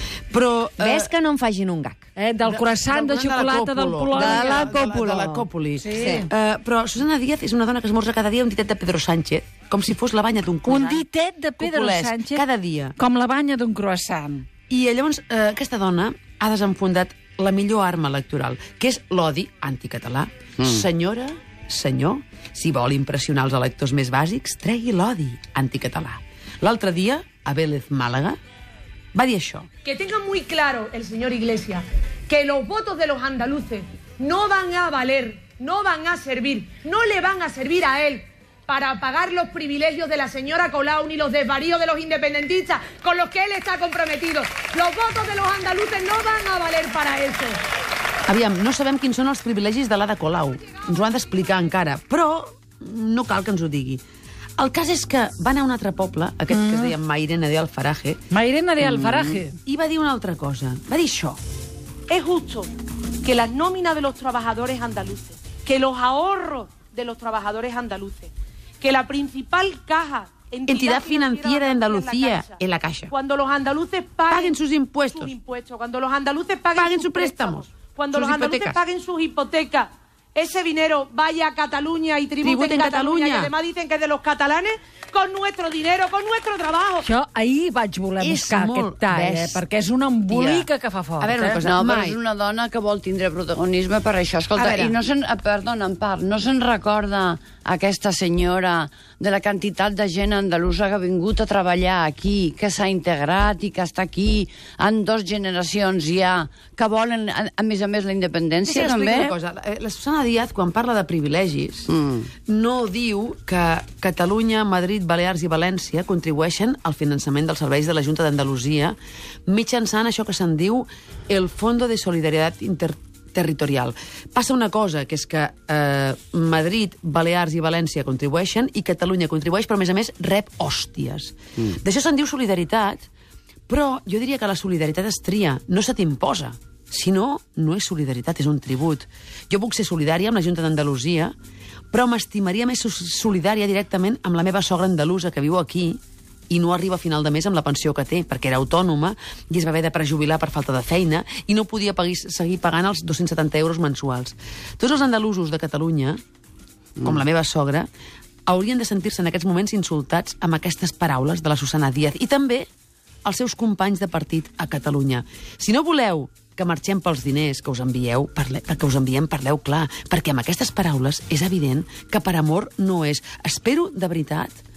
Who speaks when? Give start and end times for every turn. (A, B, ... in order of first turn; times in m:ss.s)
0:00.3-0:01.2 A
0:00.8-0:02.1 B
0:02.2-0:06.3 C
0:02.4-0:11.1 A
0:04.1-0:05.3 B
0:10.6-0:12.4 C
0:11.6-0:13.0 A
0:13.0-0:14.5 C
0:14.7-0:28.4 A
0:29.1-0:29.7 A
0:29.8-0:47.6 D
0:48.3-0:54.0 A
0:54.6-0:58.2 A
0:56.5-0:56.9 C
0:58.3-0:59.6 C
0:58.8-1:01.4 A
1:02.1-1:02.7 D
1:03.2-1:14.6 D
1:10.7-1:13.1 A
1:14.3-1:15.3 A
1:15.1-1:27.1 D
1:16.8-1:18.8 A
1:22.4-1:23.5 A
1:27.0-1:31.6 C
1:28.2-1:29.6 A
1:30.3-1:30.7 A
1:31.2-1:32.2 A
1:31.6-1:49.4 E
1:34.6-1:35.0 A
1:48.6-1:51.9 A
1:51.9-1:52.3 E
1:52.5-2:13.1 A
2:13.7-2:21.3 A
2:21.9-2:36.2 A
2:37.0-2:37.9 A
2:38.5-2:42.7 A
2:43.2-2:54.6 A